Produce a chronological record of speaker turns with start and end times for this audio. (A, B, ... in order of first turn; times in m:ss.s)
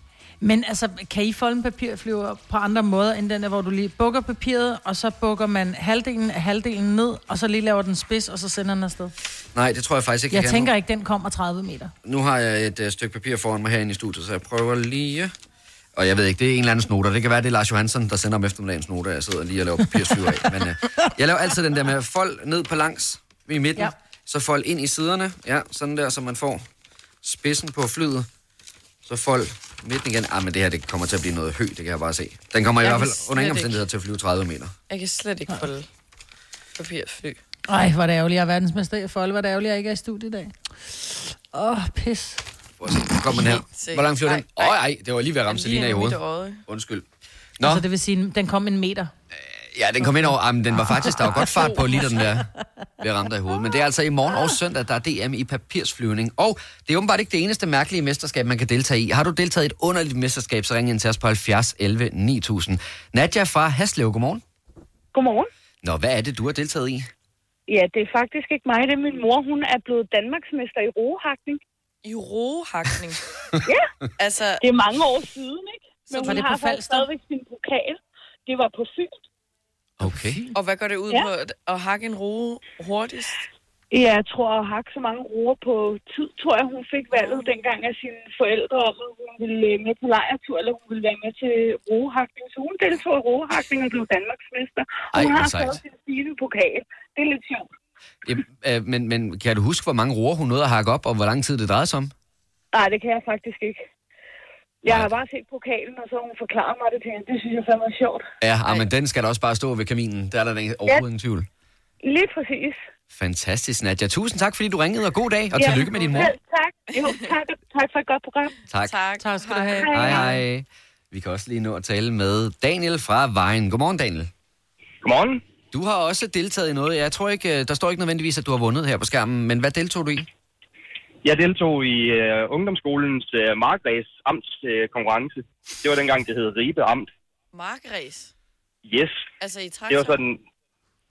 0:00.4-0:09.1 A
0:09.5-0:10.7 B
0:10.3-0:11.9 A
0:12.0-0:15.3 B
0:16.0-0:26.6 B
0:27.2-0:28.3 B
0:29.0-0:34.7 B
0:32.8-0:33.8 C
0:34.9-0:35.9 C
0:36.8-0:37.4 C
0:37.7-0:42.4 A
0:42.8-0:47.1 B
0:43.7-0:44.8 C
0:45.5-0:46.6 C
0:47.6-0:47.8 B
0:47.6-0:49.1 A
0:49.4-0:52.5 B
0:51.4-0:51.7 C
0:53.0-1:04.4 B
1:05.1-1:05.5 D
1:05.8-1:07.1 B
1:07.7-1:11.6 D
1:12.0-1:13.2 C
1:14.2-1:14.6 C
1:14.6-1:19.2 D
1:16.1-1:16.5 C
1:16.2-1:17.1 A
1:20.0-1:20.4 B
1:20.1-1:20.5 A
1:20.5-1:23.4 C
1:23.9-1:37.7 D
1:35.1-1:35.8 B
1:38.2-1:42.1 B
1:42.7-1:43.8 D
1:44.8-1:48.2 D
1:44.9-1:45.2 B
1:48.4-1:51.5 B
1:52.0-1:52.8 D
1:53.1-1:56.3 B
1:55.6-1:58.6 D
1:55.6-1:56.3 C
1:56.9-1:57.3 C
1:58.9-2:00.2 C
1:59.2-2:00.4 A
1:59.8-2:00.2 D
1:59.9-2:04.3 B
2:05.0-2:05.4 E
2:05.7-2:10.3 B
2:11.2-2:17.1 E
2:17.5-2:18.3 C
2:18.9-2:19.2 E
2:19.4-2:20.2 C
2:19.9-2:20.4 E